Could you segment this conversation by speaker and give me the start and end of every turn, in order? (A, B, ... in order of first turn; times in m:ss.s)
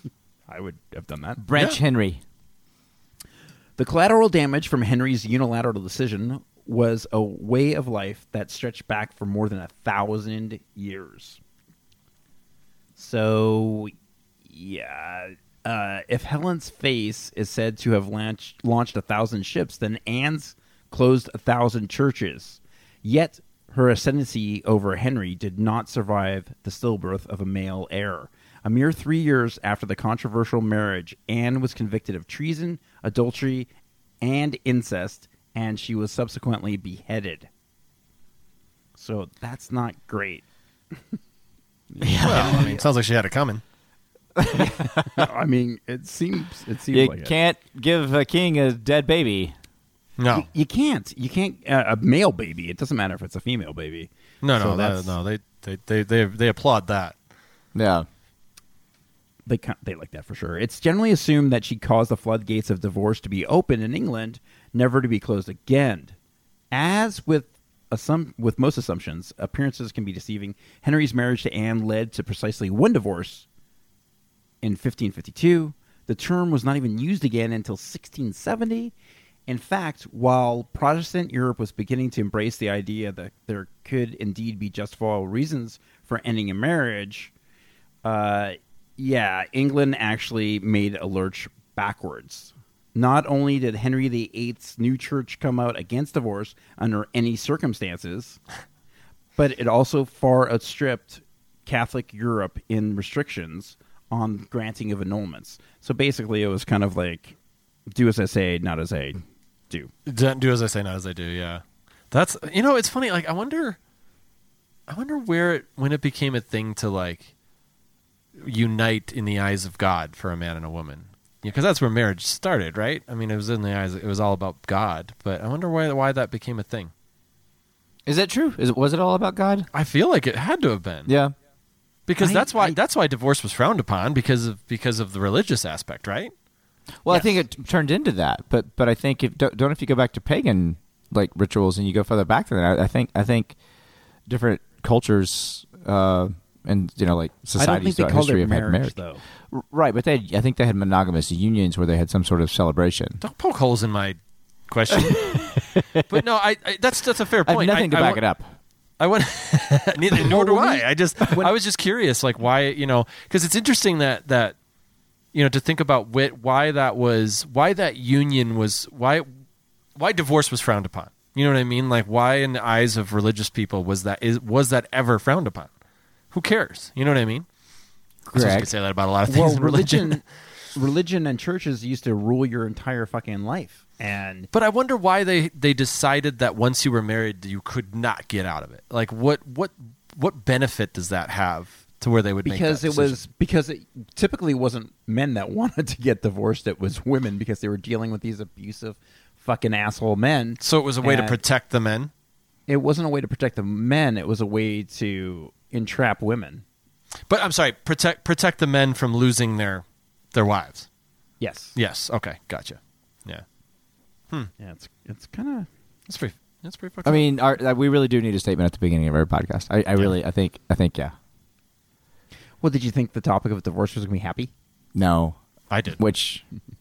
0:00.5-0:01.4 A
0:01.4-0:02.2 B
0:03.8-0:11.4 A
0:13.0-0:13.9 A
0:14.4-0:33.7 A
0:34.2-0:37.5 A
0:39.0-0:40.4 A
0:41.9-0:42.8 A
0:42.0-0:42.7 B
0:42.2-0:43.6 C
0:44.4-0:45.2 B
0:44.5-0:47.3 A
0:46.9-0:49.6 B
0:50.2-0:50.5 C
0:50.3-0:55.1 A
0:54.4-0:57.2 C
0:57.8-0:58.1 B
0:59.5-1:06.2 A
1:06.7-1:13.5 A
1:14.6-1:18.9 A
1:19.5-1:27.3 A
1:28.0-1:38.4 A
1:39.4-1:47.4 A
1:47.9-1:49.9 A
1:50.1-1:53.8 C
1:54.9-1:57.3 C
1:58.4-2:06.9 C
2:08.1-2:09.7 B
2:09.7-2:11.1 C
2:11.1-2:11.3 B
2:12.1-2:16.3 C
2:12.2-2:12.8 A
2:17.0-2:23.6 B
2:24.3-2:29.0 B
2:27.6-2:29.2 A
2:29.5-2:33.2 B
2:33.2-2:34.2 C
2:34.7-2:35.5 C
2:35.1-2:36.1 B
2:36.1-2:38.2 C
2:37.5-2:38.5 B
2:39.0-2:44.6 C
2:40.3-2:40.8 B
2:40.3-2:40.8 A
2:45.3-2:49.3 C
2:50.0-2:55.7 C
2:56.3-2:57.5 C
2:58.3-2:58.7 B
2:58.3-3:00.2 C
2:59.3-3:04.5 A
3:04.5-3:13.2 C
3:12.4-3:21.4 A
3:20.6-3:22.1 C
3:22.7-3:26.6 A
3:27.3-3:30.9 C
3:31.4-3:31.8 A
3:31.8-3:33.4 C
3:34.6-3:35.7 A
3:36.1-3:37.3 C
3:37.0-3:41.2 B
3:42.6-3:44.5 A
3:45.0-3:45.4 B
3:45.7-3:46.0 C
3:46.0-3:46.4 B